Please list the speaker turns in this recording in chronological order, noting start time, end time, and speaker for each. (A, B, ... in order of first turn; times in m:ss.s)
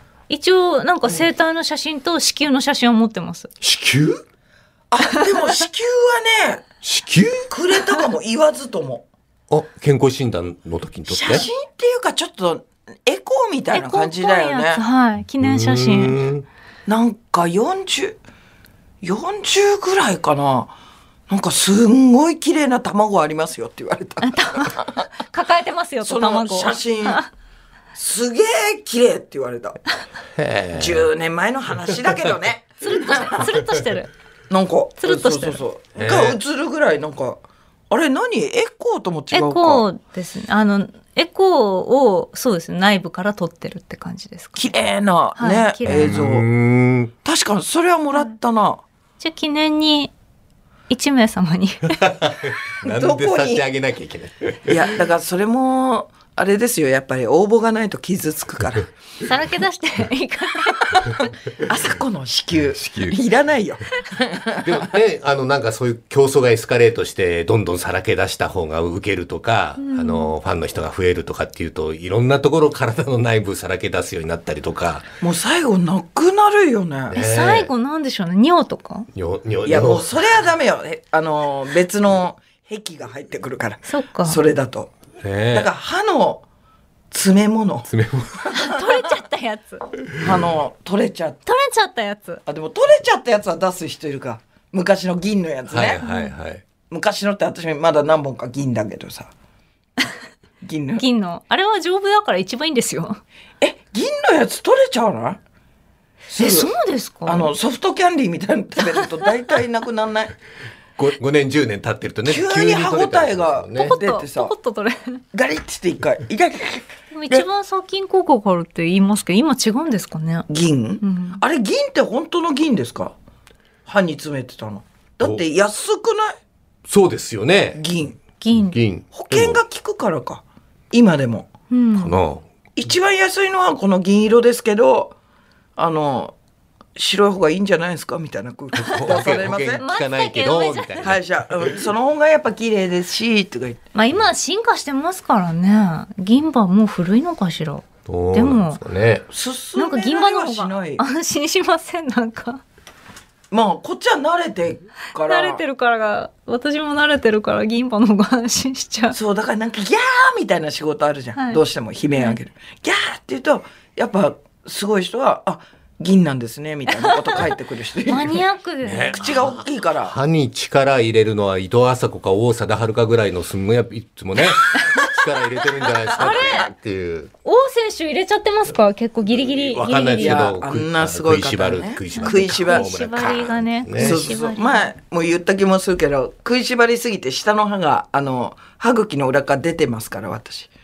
0:00.3-0:03.5 A
0:03.6-0:04.2 B
0:04.9-0:06.7 C
0:06.8-0:07.5 B
0:07.4-0:09.1 C
0:09.5-0:11.5 B
0:11.1-0:14.8 C
0:13.7-0:16.2 A
0:15.4-0:16.5 B
0:16.9-0:18.2 C
0:19.0-0:20.7 C
0:21.3-0:25.1 C
0:24.2-0:27.3 A
0:26.0-0:27.2 C
0:28.0-0:29.8 C
0:30.4-0:31.1 B
0:30.8-0:33.5 C
0:32.8-0:34.1 A
0:34.5-0:39.8 C
0:35.0-0:35.6 A
0:36.0-0:36.4 B
0:39.3-0:44.8 A
0:44.6-0:46.5 C
0:45.4-0:46.2 A
0:45.9-0:47.1 B
0:47.2-0:48.8 C
0:49.2-0:50.1 A
0:50.9-0:52.0 A
0:51.9-0:54.9 B
0:52.8-0:53.6 C
0:54.7-0:58.9 C
0:59.2-1:01.1 A
1:01.6-1:04.9 C
1:02.8-1:03.2 B
1:04.6-1:15.1 B
1:09.8-1:10.3 A
1:15.2-1:17.2 C
1:17.1-1:17.7 B
1:17.1-1:19.1 A
1:19.1-1:20.2 B
1:19.7-1:24.9 C
1:23.8-1:24.4 A
1:25.2-1:25.7 B
1:25.5-1:26.4 C
1:27.1-1:27.9 C
1:27.9-1:28.5 B
1:28.4-1:28.8 C
1:28.5-1:29.8 A
1:30.2-1:31.4 C
1:31.5-1:32.4 A
1:32.5-1:36.0 C
1:35.7-1:36.6 B
1:36.0-1:36.3 A
1:36.9-1:39.3 C
1:40.6-1:41.0 C
1:41.0-1:43.2 A
1:43.6-1:45.4 C
1:46.3-1:46.7 C
1:46.4-1:47.5 A
1:47.2-1:50.4 C
1:51.0-1:54.0 B
1:52.3-1:54.5 C
1:53.8-1:55.2 A
1:55.3-1:57.4 C
1:57.1-2:00.5 A
2:00.5-2:03.1 C
2:01.0-2:01.4 A
2:03.9-2:06.4 C
2:06.9-2:07.8 B
2:07.8-2:08.2 C
2:08.4-2:08.8 A
2:08.5-2:09.6 B
2:09.1-2:11.5 C
2:11.7-2:12.2 A
2:12.0-2:12.5 B
2:12.8-2:15.2 C
2:15.8-2:16.4 C
2:17.0-2:19.8 C
2:18.7-2:21.2 B
2:19.8-2:21.1 A
2:21.0-2:23.8 C
2:24.0-2:28.8 A
2:28.1-2:29.2 B
2:29.3-2:31.0 C
2:29.8-2:32.6 A
2:33.5-2:35.6 C
2:35.2-2:39.2 A
2:39.1-2:48.4 C
2:41.4-2:41.6 A
2:46.9-2:47.5 A
2:48.1-2:49.3 A
2:48.8-2:57.3 B
2:49.2-2:50.2 C
2:54.7-2:55.1 A
2:56.1-2:56.7 A
2:57.4-3:00.5 A
2:59.4-3:04.3 B
3:00.2-3:03.1 C
3:02.2-3:04.9 A
3:04.0-3:10.7 C